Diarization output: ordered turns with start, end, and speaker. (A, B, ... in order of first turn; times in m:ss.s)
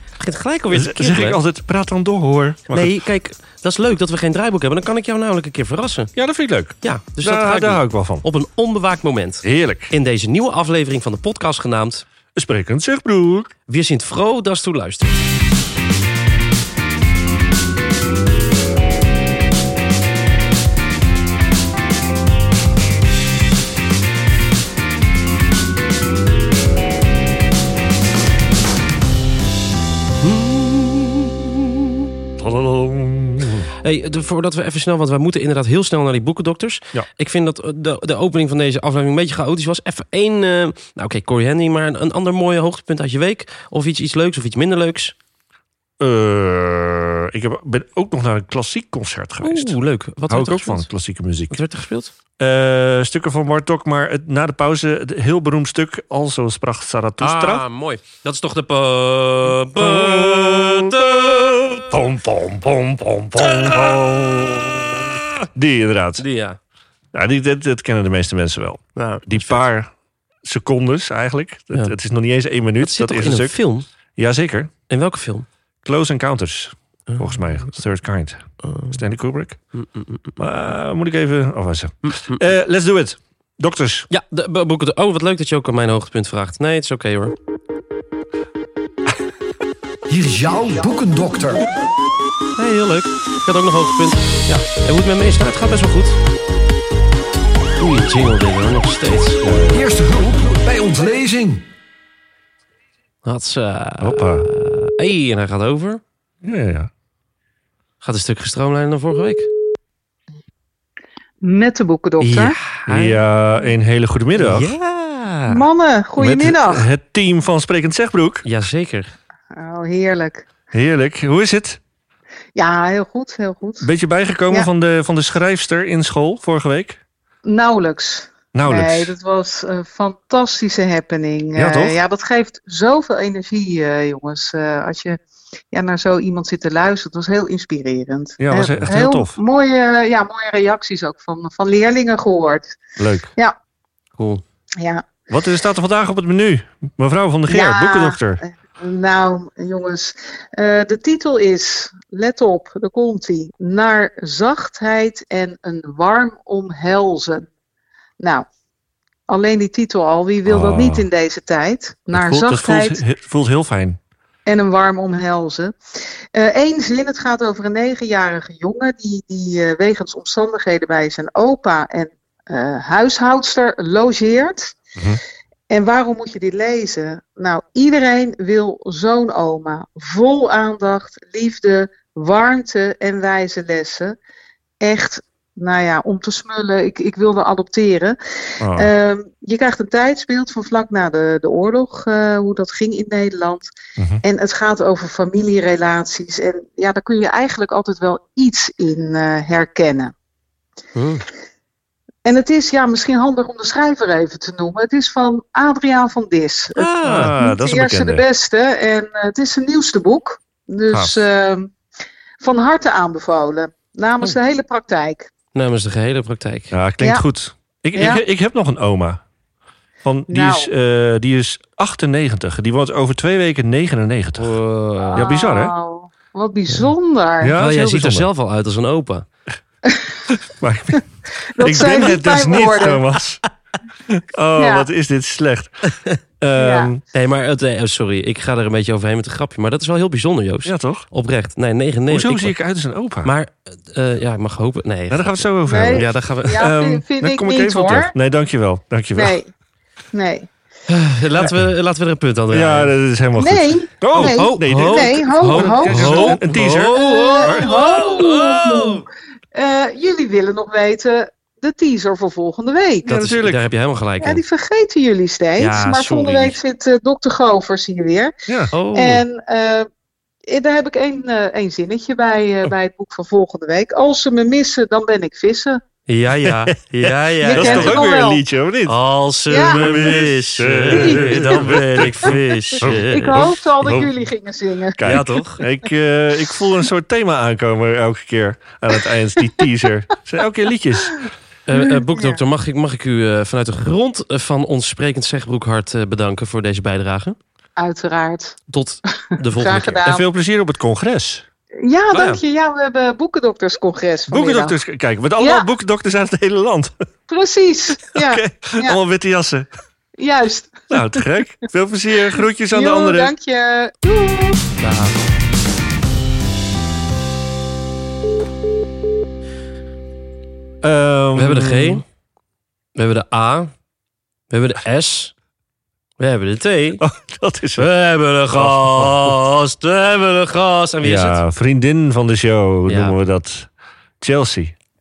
0:00.2-0:01.4 A
0:00.7-0:02.9 B
0:02.7-0:06.1 A
0:06.2-0:08.2 B
0:06.8-0:12.0 A
0:09.4-0:09.9 B
0:12.3-0:13.5 B
0:13.7-0:15.2 A
0:30.2-0:31.9 A
0:32.4-0:33.7 B
0:33.8-0:45.2 A
0:46.0-0:49.8 B
0:49.4-0:50.9 A
0:50.3-0:51.6 B
0:51.5-0:52.1 A
0:52.4-0:57.6 B
0:57.2-1:01.8 A
0:59.8-1:06.2 B
1:03.4-1:04.0 A
1:06.2-1:06.6 A
1:07.1-1:09.9 B
1:09.0-1:09.6 A
1:10.4-1:13.6 B
1:12.8-1:13.9 A
1:14.2-1:14.7 B
1:14.9-1:15.5 A
1:15.8-1:19.6 B
1:18.6-1:19.0 A
1:19.7-1:20.4 A
1:20.4-1:24.1 B
1:22.0-1:22.4 A
1:24.1-1:27.3 A
1:30.1-1:31.7 C
1:32.6-1:36.2 A
1:37.8-1:39.4 A
1:39.4-1:39.8 B
1:39.7-1:41.7 C
1:43.2-1:46.0 A
1:44.0-1:44.5 B
1:46.4-1:46.9 B
1:48.0-1:49.5 A
1:51.4-1:52.6 D
1:52.2-1:53.2 A
1:52.9-1:54.7 B
1:54.3-1:55.6 A
1:55.5-1:56.9 D
1:56.2-1:58.4 B
1:58.4-1:59.1 A
1:59.5-2:00.5 D
2:00.7-2:01.8 B
2:02.5-2:03.9 D
2:03.8-2:07.0 B
2:07.4-2:15.2 D
2:08.5-2:09.2 B
2:11.6-2:12.0 B
2:15.7-2:22.8 D
2:18.4-2:19.4 B
2:23.0-2:23.3 B
2:24.2-2:24.4 A
2:25.3-2:28.4 B
2:27.5-2:37.5 D
2:38.2-2:38.5 D
2:39.3-2:43.0 D
2:40.5-2:41.0 B
2:42.1-2:44.0 B
2:44.5-2:45.8 D
2:46.3-2:54.8 D
2:55.7-3:04.2 D
3:04.8-3:13.7 D
3:08.6-3:08.9 B
3:14.0-3:14.2 B
3:14.2-3:20.1 D
3:21.0-3:21.2 A
3:22.2-3:31.7 D
3:26.8-3:27.3 A
3:27.0-3:28.2 B
3:30.9-3:31.2 B
3:32.4-3:35.3 D
3:35.5-3:36.7 A
3:36.7-3:39.2 B
3:38.0-3:38.2 D
3:40.0-3:44.5 B
3:40.3-3:40.7 D
3:44.4-3:45.2 A
3:45.1-3:47.6 D
3:45.1-3:45.7 B
3:47.4-3:48.3 B
3:47.6-3:49.3 A
3:50.3-3:51.0 B
3:51.5-3:53.0 D
3:51.6-3:53.4 B
3:54.1-3:55.9 B
3:54.6-3:54.9 D
3:56.4-3:57.0 B
3:56.6-3:56.9 D
3:57.1-4:02.5 A
4:00.6-4:01.0 B
4:02.1-4:03.3 B
4:03.2-4:06.6 A
4:05.1-4:09.4 B
4:05.6-4:08.1 D
4:09.2-4:09.5 D
4:10.1-4:10.5 D
4:10.9-4:13.0 A
4:12.5-4:18.5 B
4:13.4-4:16.4 D
4:14.1-4:19.0 A
4:17.0-4:23.1 D
4:23.0-4:23.7 B
4:23.1-4:24.4 A
4:24.2-4:28.3 D
4:25.6-4:26.6 A
4:28.7-4:29.2 A
4:28.9-4:29.9 D
4:30.5-4:35.8 D
4:36.1-4:38.0 A
4:36.4-4:39.0 B
4:37.4-4:38.4 D
4:38.9-4:43.5 A
4:39.5-4:40.2 D
4:39.6-4:44.1 B
4:40.9-4:42.4 D
4:43.0-4:45.2 D
4:45.0-4:51.3 B
4:45.0-4:45.6 A
4:51.7-4:57.4 A
4:52.1-4:52.4 D
4:57.8-4:58.6 D
4:58.7-5:00.0 A
4:59.5-5:00.2 D
5:00.0-5:01.4 B
5:01.8-5:04.8 D
5:02.1-5:02.4 A
5:04.3-5:07.0 B
5:05.4-5:05.6 D
5:07.3-5:09.0 D
5:08.1-5:09.7 B
5:10.2-5:11.2 D
5:10.9-5:13.4 B
5:12.7-5:14.6 D
5:14.8-5:15.2 A
5:20.8-5:22.0 B
5:21.4-5:22.0 A
5:23.0-5:23.7 A
5:24.5-5:25.3 A
5:26.2-5:27.0 A
5:27.0-5:27.9 B
5:27.8-5:31.4 A
5:28.5-5:29.4 B
5:31.0-5:34.8 B
5:32.9-5:33.2 A